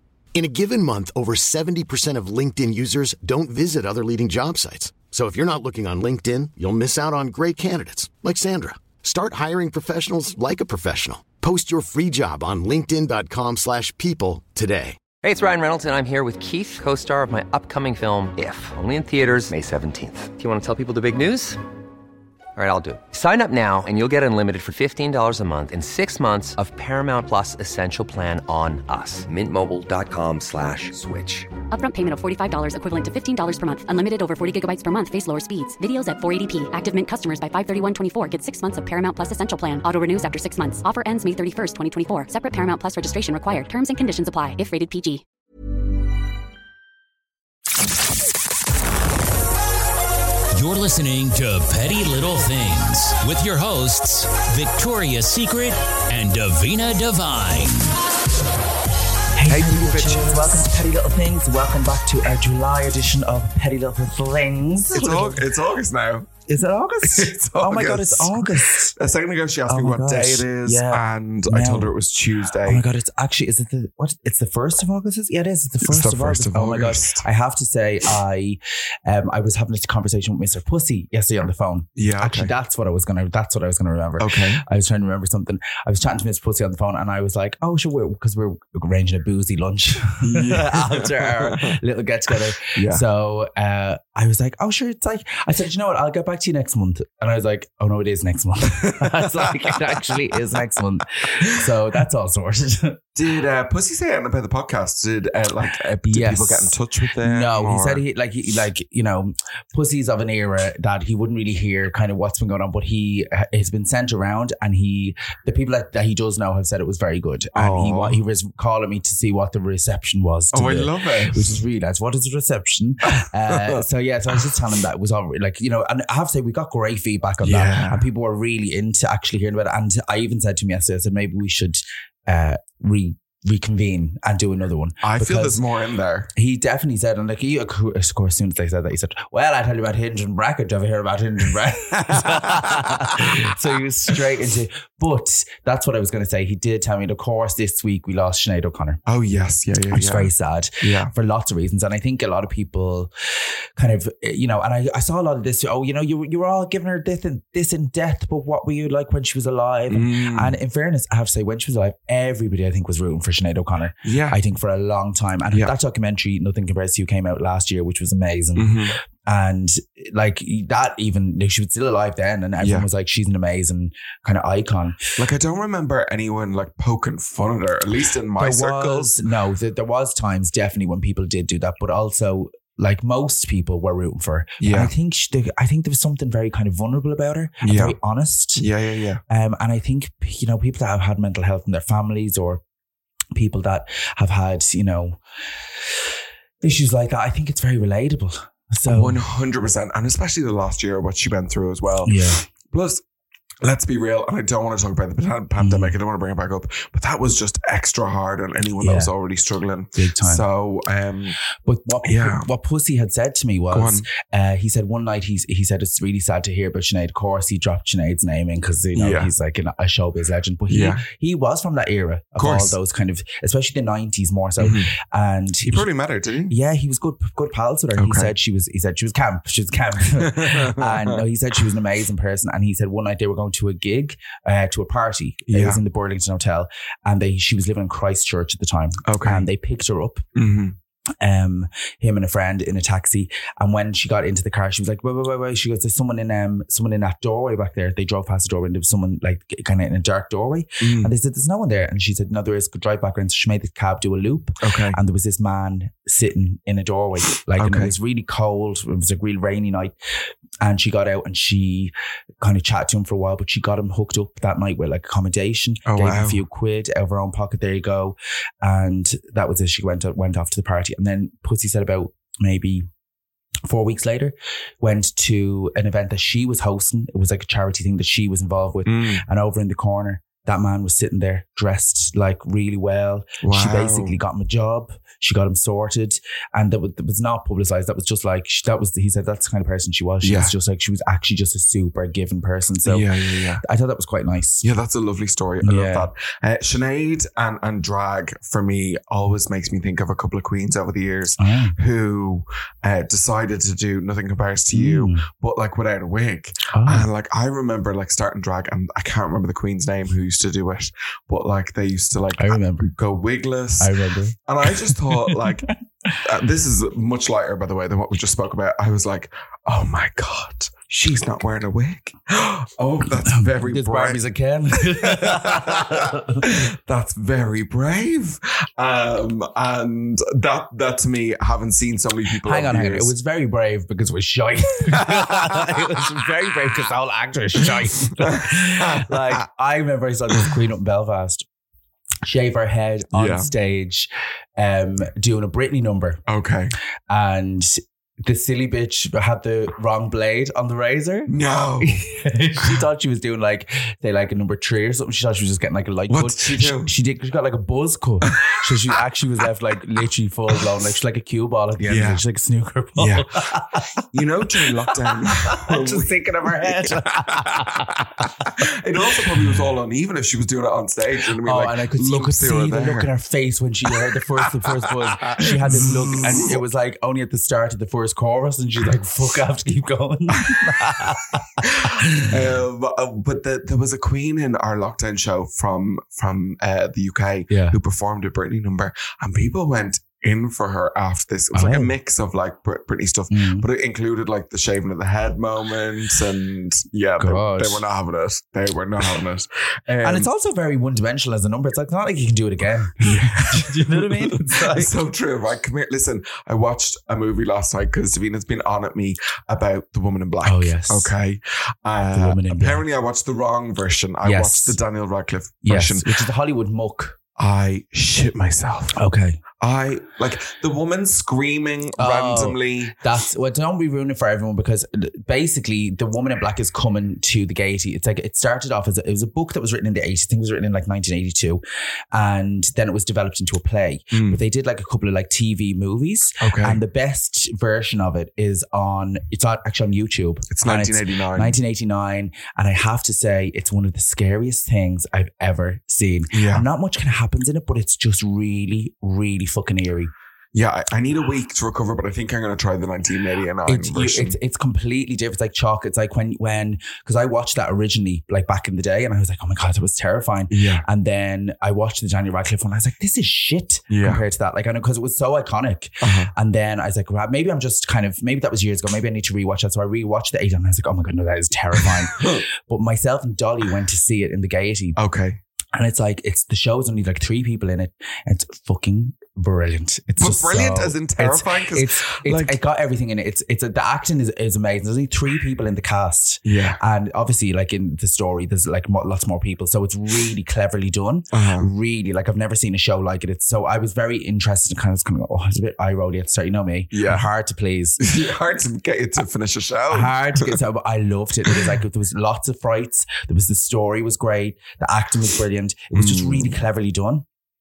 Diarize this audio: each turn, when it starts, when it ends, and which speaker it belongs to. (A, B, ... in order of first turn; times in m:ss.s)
0:00.3-0:15.0 A
0:15.2-0:21.6 B
0:22.6-0:31.5 B
0:31.7-0:45.2 C
0:50.5-0:58.0 D
0:59.4-1:05.4 E
0:59.4-1:00.7 F
1:04.9-1:06.3 F
1:06.4-1:08.9 E
1:07.0-1:12.8 F
1:09.7-1:11.9 E
1:12.6-1:43.0 E
1:15.8-1:17.2 F
1:22.0-1:22.5 F
1:24.2-1:24.6 F
1:30.2-1:31.8 F
1:32.8-1:33.0 F
1:38.9-1:40.2 F
1:43.2-1:48.0 F
1:46.0-2:15.6 E
1:57.5-1:58.2 F
2:00.5-2:01.6 F
2:07.4-2:08.1 F
2:15.0-2:16.3 F
2:16.3-2:29.0 E
2:22.3-2:22.6 F
2:29.1-2:30.3 F
2:29.9-2:33.1 E
2:30.8-2:31.1 F
2:33.8-2:55.2 E
2:39.9-2:40.6 F
2:44.0-2:44.4 F
2:48.6-2:49.0 F
2:52.6-2:52.8 F
2:55.2-2:59.2 F
2:58.4-3:08.7 E
3:04.6-3:04.9 F
3:07.6-3:08.0 F
3:08.6-3:09.2 F
3:09.3-3:12.6 E
3:13.3-3:15.2 E
3:16.6-3:19.2 E
3:18.9-3:23.0 F
3:22.0-3:22.4 E
3:23.6-3:31.4 F
3:25.6-3:26.0 E
3:28.8-3:29.1 E
3:29.9-3:30.4 E
3:31.6-3:45.9 E
3:32.0-3:32.5 F
3:33.7-3:34.0 F
3:39.0-3:39.3 F
3:40.7-3:41.0 F
3:42.4-3:42.7 F
3:44.6-3:44.9 F
3:45.7-3:46.5 F
3:46.5-4:00.3 E
3:48.0-3:48.3 F
3:50.2-3:51.2 F
3:55.5-3:55.8 F
3:59.1-3:59.5 F
4:00.3-4:00.8 F
4:01.2-4:19.9 E
4:10.8-4:11.1 F
4:14.6-4:15.0 F
4:17.6-4:17.9 F
4:20.6-4:32.9 E
4:25.9-4:26.4 F
4:33.6-4:53.1 E
4:38.9-4:39.2 F
4:43.4-4:44.1 F
4:50.2-4:50.5 F
4:52.9-4:53.6 F
4:53.6-4:54.6 E
4:54.6-5:13.9 F
4:55.6-4:56.1 E
5:01.4-5:01.8 E
5:04.7-5:05.2 E
5:06.7-5:07.1 E
5:12.4-5:12.9 E
5:13.8-5:16.2 E
5:14.4-5:15.7 F
5:16.2-5:24.2 F
5:23.2-5:26.4 E
5:24.9-5:33.1 F
5:32.4-5:41.4 E
5:35.0-5:35.8 F
5:38.3-5:39.3 F
5:42.2-5:46.2 E
5:43.1-5:43.5 F
5:46.3-5:46.7 F
5:47.1-6:03.8 E
5:51.3-5:52.0 F
5:56.1-5:56.9 F
5:58.3-5:58.7 F
6:01.8-6:02.2 F
6:03.0-6:03.3 F
6:04.1-6:13.1 F
6:04.6-6:08.5 E
6:11.4-6:22.4 E
6:14.7-6:16.6 F
6:21.6-6:40.3 F
6:27.5-6:27.8 E
6:31.5-6:31.9 E
6:33.3-6:33.7 E
6:37.2-6:37.8 E
6:40.0-6:44.9 E
6:43.0-6:56.1 F
6:50.4-6:51.1 E
6:52.1-6:52.8 E
6:54.2-6:54.8 E
6:55.6-6:57.2 E
6:57.4-6:59.0 F
6:59.0-6:59.4 E
6:59.6-7:03.0 F
7:02.0-7:30.1 E
7:14.1-7:14.4 F
7:16.4-7:16.8 F
7:20.5-7:21.6 F
7:26.3-7:26.6 F
7:30.5-7:34.4 F
7:33.6-7:55.0 E
7:40.5-7:40.8 F
7:43.9-7:44.2 F
7:46.0-7:46.3 F
7:55.0-7:55.4 F
7:55.7-8:18.1 E
8:00.2-8:02.6 F
8:06.4-8:06.8 F
8:11.3-8:11.7 F
8:16.9-8:17.2 F
8:18.0-8:20.5 F
8:19.9-8:27.2 E
8:25.9-8:26.5 F